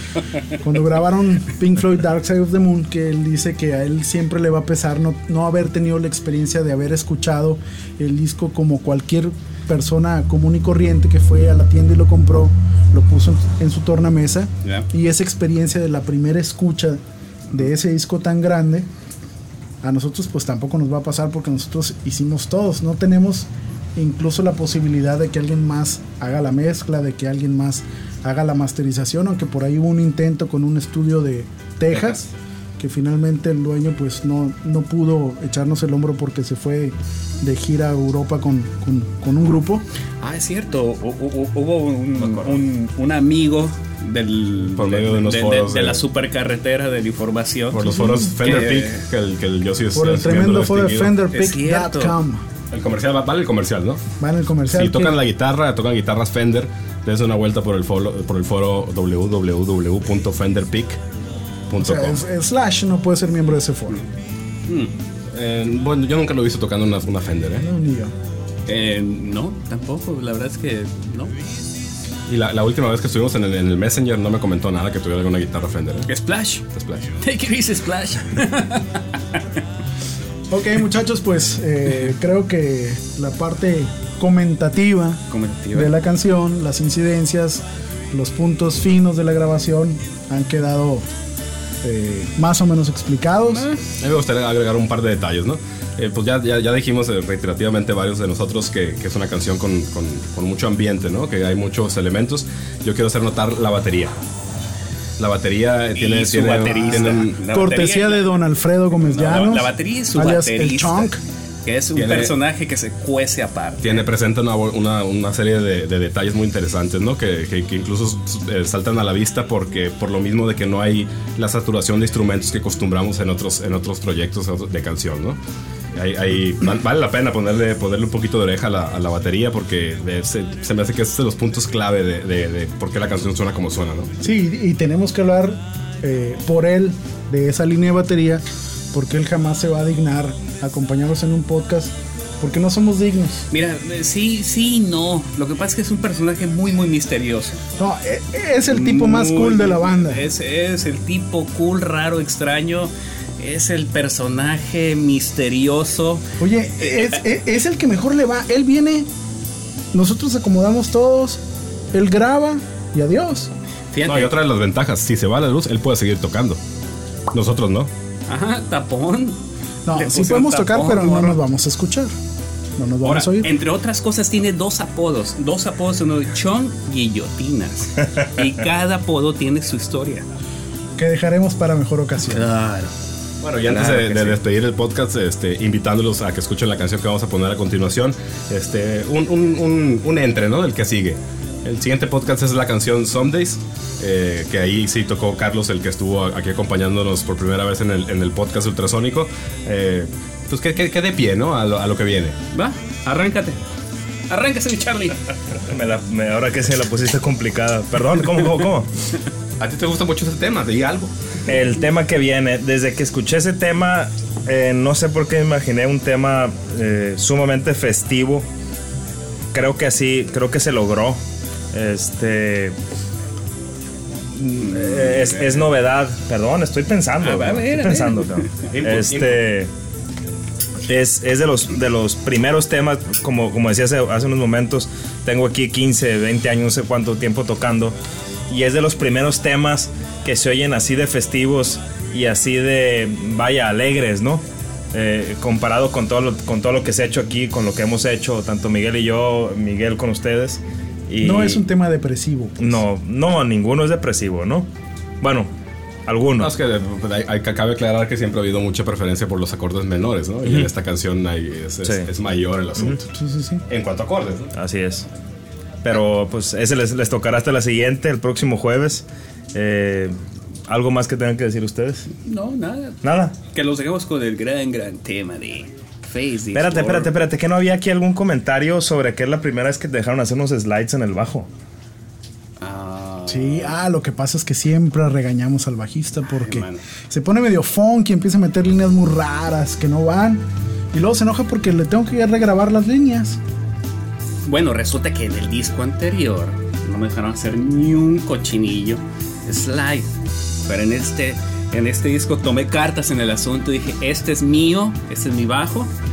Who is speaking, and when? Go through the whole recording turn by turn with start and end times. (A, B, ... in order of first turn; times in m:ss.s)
0:00.5-0:18.9 A
0:19.8-0:32.3 A
0:32.8-0:39.8 A
0:40.2-0:47.9 B
0:42.2-0:42.6 C
0:44.8-0:46.0 C
0:47.7-0:51.2 C
0:47.8-0:48.5 A
0:48.4-0:49.0 B
0:49.9-0:52.4 A
0:51.3-0:52.2 B
0:52.7-0:54.0 C
0:54.2-0:55.2 A
0:54.7-1:01.0 C
1:01.7-1:02.2 C
1:01.8-1:04.0 A
1:04.7-1:04.9 B
1:05.3-1:07.6 C
1:07.6-1:08.1 A
1:08.7-1:11.3 B
1:12.3-1:16.1 C
1:16.1-1:19.4 B
1:16.7-1:17.0 C
1:20.5-1:31.0 A
1:25.3-1:25.9 B
1:31.8-1:33.7 A
1:33.5-1:33.8 B
1:34.0-1:44.1 C
1:45.2-1:47.4 C
1:45.9-1:48.3 B
1:47.0-1:51.2 A
1:49.0-1:51.1 B
1:51.6-1:54.0 B
1:52.0-1:52.4 C
1:53.8-2:05.4 C
2:06.0-2:14.1 C
2:14.2-2:23.5 A
2:23.5-2:27.6 B
2:27.8-2:30.3 A
2:28.7-2:36.3 B
2:36.4-2:39.1 A
2:39.9-2:41.4 A
2:41.9-2:43.5 A
2:43.9-2:44.3 B
2:44.0-2:46.6 C
2:47.3-2:47.9 C
2:48.3-2:49.4 B
2:49.9-2:52.1 A
2:49.9-2:51.4 B
2:52.8-2:53.5 A
2:53.0-3:00.3 B
3:01.0-3:02.5 A
3:02.3-3:02.9 B
3:03.4-3:22.4 C
3:03.7-3:04.4 B
3:22.5-3:23.6 B
3:24.3-3:25.3 B
3:25.7-3:28.9 D
3:29.6-3:31.1 C
3:31.5-3:38.4 D
3:39.5-3:41.2 D
3:41.7-3:42.8 D
3:44.4-3:45.6 B
3:44.6-3:49.7 D
3:47.2-3:48.4 B
3:48.7-3:49.4 C
3:50.8-3:58.0 D
3:58.5-4:04.4 D
4:04.9-4:11.6 D
4:11.2-4:12.8 A
4:12.6-4:14.7 D
4:15.2-4:15.5 D
4:16.1-4:16.5 D
4:16.4-4:23.1 C
4:20.4-4:20.7 D
4:23.1-4:23.6 A
4:23.7-4:24.5 C
4:24.6-4:25.1 D
4:25.8-4:30.2 D
4:30.7-4:32.1 D
4:32.2-4:33.0 B
4:33.0-4:33.4 D
4:33.5-4:37.1 B
4:36.6-4:41.5 D
4:42.6-4:43.8 B
4:43.3-4:53.4 A
4:46.3-4:46.9 B
4:54.5-5:00.1 B
5:00.6-5:05.9 B